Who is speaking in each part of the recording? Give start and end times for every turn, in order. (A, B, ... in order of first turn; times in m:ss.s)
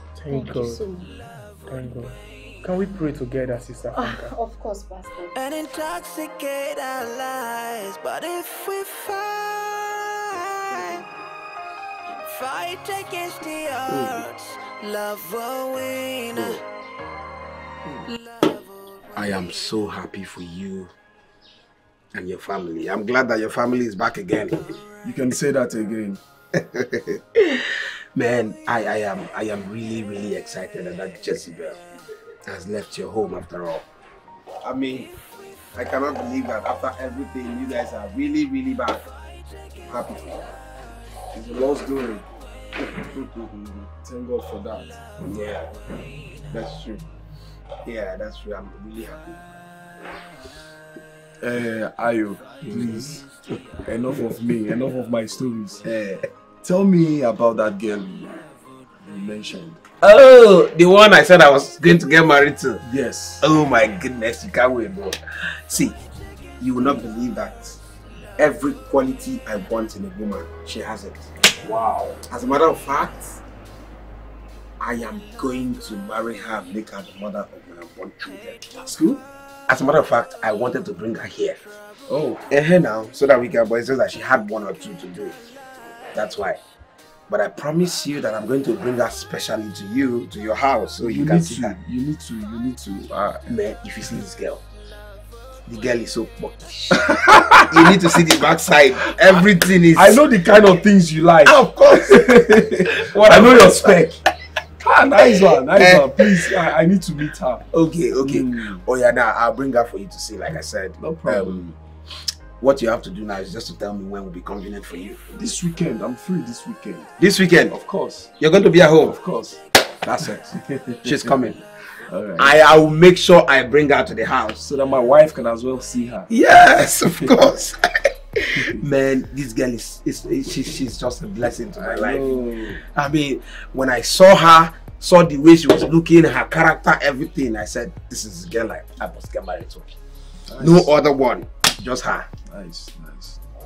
0:00.2-0:00.9 A
0:00.3-0:01.1 B
0:01.3-0:02.1 C
0:01.7-0:04.3 A
0:03.9-0:05.3 B
0:05.3-0:11.0 C
0:12.2-0:16.6 C
0:13.9-0:14.2 D
0:16.3-0:16.6 D
0:18.1-0:19.5 C
0:19.2-0:20.9 D
0:22.1-0:24.7 D
0:25.0-0:26.2 E
0:26.6-0:27.6 D
0:28.2-0:31.8 D
0:32.5-0:33.8 D
0:34.6-0:35.1 D
0:35.8-0:39.0 D
0:39.9-0:40.4 D
0:41.3-0:42.2 E
0:43.4-0:45.0 E
0:45.2-0:45.8 D
0:46.5-0:47.0 D
0:47.8-0:49.4 D
0:51.4-0:53.2 E
0:52.6-0:53.2 D
0:52.8-0:53.0 C
0:53.8-0:55.8 E
0:55.8-0:56.3 D
0:56.6-0:58.4 E
0:59.0-0:59.8 E
1:00.0-1:02.8 D
1:02.8-1:03.5 E
1:03.4-1:06.0 D
1:06.6-1:07.8 D
1:08.4-1:11.3 D
1:11.6-1:12.2 E
1:12.3-1:13.4 D
1:14.8-1:18.7 D
1:18.8-1:19.2 E
1:19.7-1:21.6 D
1:22.1-1:22.4 E
1:22.5-1:25.4 D
1:26.1-1:26.6 D
1:27.3-1:31.8 D
1:31.0-1:33.4 E
1:33.2-1:34.6 D
1:35.7-1:40.2 D
1:36.9-1:38.0 E
1:39.0-1:44.2 E
1:41.4-1:44.2 D
1:44.8-1:48.8 E
1:45.0-1:46.7 D
1:47.7-1:51.8 D
1:51.0-1:51.6 E
1:52.6-1:55.3 D
1:55.3-1:57.1 E
1:57.2-1:57.8 D
1:57.7-1:58.3 E
1:58.4-1:59.2 D
1:59.0-1:59.6 E
2:00.0-2:01.6 D
2:00.2-2:02.6 E
2:02.4-2:04.6 D
2:04.6-2:06.3 E
2:06.3-2:19.9 D
2:11.7-2:12.8 E
2:20.5-2:21.0 E
2:20.6-2:22.3 D
2:22.4-2:23.4 E